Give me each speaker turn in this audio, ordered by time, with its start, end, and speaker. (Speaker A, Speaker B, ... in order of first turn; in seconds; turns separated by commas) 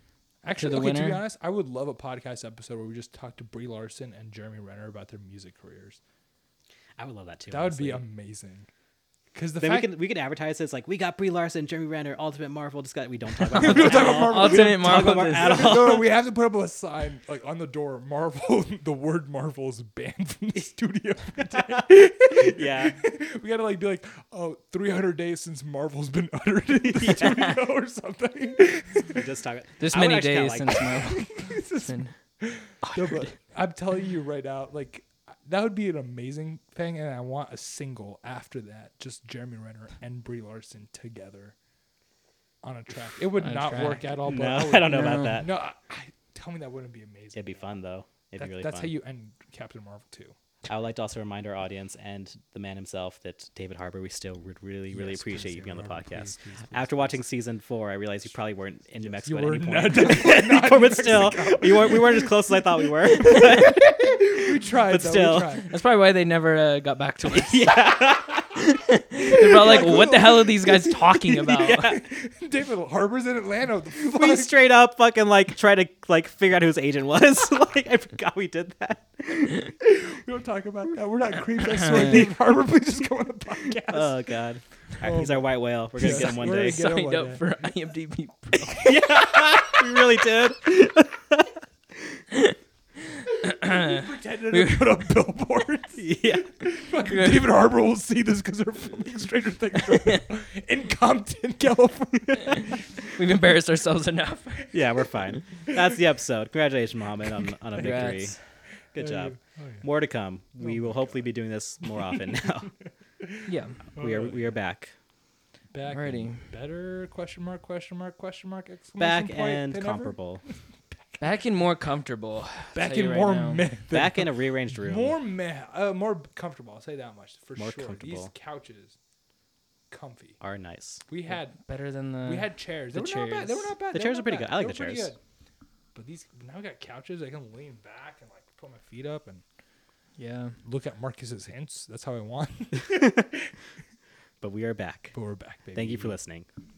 Speaker A: 0.4-6.0, Speaker B: 0.6-1.2, Speaker C: 7.0-8.0, Speaker A: 7.5-8.7, Speaker A: 9.3-9.9, Speaker C: 9.6-16.1, Speaker B: 13.4-16.0, Speaker A: 13.6-29.2, Speaker C: 21.4-23.0, Speaker C: 26.8-27.6, Speaker C: 29.1-31.0, Speaker B: 29.8-32.1, Speaker A: 31.0-41.5, Speaker C: 32.8-33.3, Speaker A: 42.6-47.8, Speaker B: 43.4-44.2, Speaker C: 44.2-45.5, Speaker B: 44.9-45.4, Speaker C: 47.3-48.9, Speaker A: 48.4-50.3, Speaker C: 50.7-65.6, Speaker A: 54.9-57.2, Speaker A: 59.0-62.5, Speaker A: 63.2-65.7, Speaker B: 65.6-67.9, Speaker C: 67.2-68.5, Speaker B: 68.6-71.9, Speaker A: 69.2-74.5, Speaker C: 71.6-71.9, Speaker C: 74.0-79.7, Speaker A: 79.8-84.2, Speaker B: 81.7-82.2, Speaker C: 81.9-82.3, Speaker C: 83.8-86.8, Speaker A: 85.0-87.5, Speaker B: 86.0-89.2, Speaker C: 88.8-91.5, Speaker A: 93.3-103.0, Speaker B: 93.4-95.1, Speaker C: 96.0-96.5, Speaker B: 97.1-97.4, Speaker B: 103.2-104.8, Speaker C: 104.7-108.4, Speaker B: 107.7-108.4, Speaker C: 108.9-112.8, Speaker A: 109.0-109.8, Speaker A: 110.6-111.3, Speaker A: 111.8-112.2, Speaker A: 113.2-114.5, Speaker B: 113.5-113.9, Speaker C: 113.9-114.9, Speaker A: 115.7-121.2, Speaker B: 115.9-116.5, Speaker C: 119.0-120.4, Speaker B: 121.2-123.7, Speaker A: 122.7-128.9, Speaker C: 123.9-125.2, Speaker C: 127.5-128.3, Speaker A: 129.9-130.4, Speaker C: 130.4-131.0, Speaker A: 131.1-131.6, Speaker B: 131.3-133.7, Speaker A: 132.2-135.2, Speaker C: 133.9-135.1, Speaker A: 135.9-139.4, Speaker B: 140.2-140.6, Speaker A: 140.6-143.5, Speaker C: 144.4-145.2, Speaker A: 145.1-146.2, Speaker C: 145.7-146.5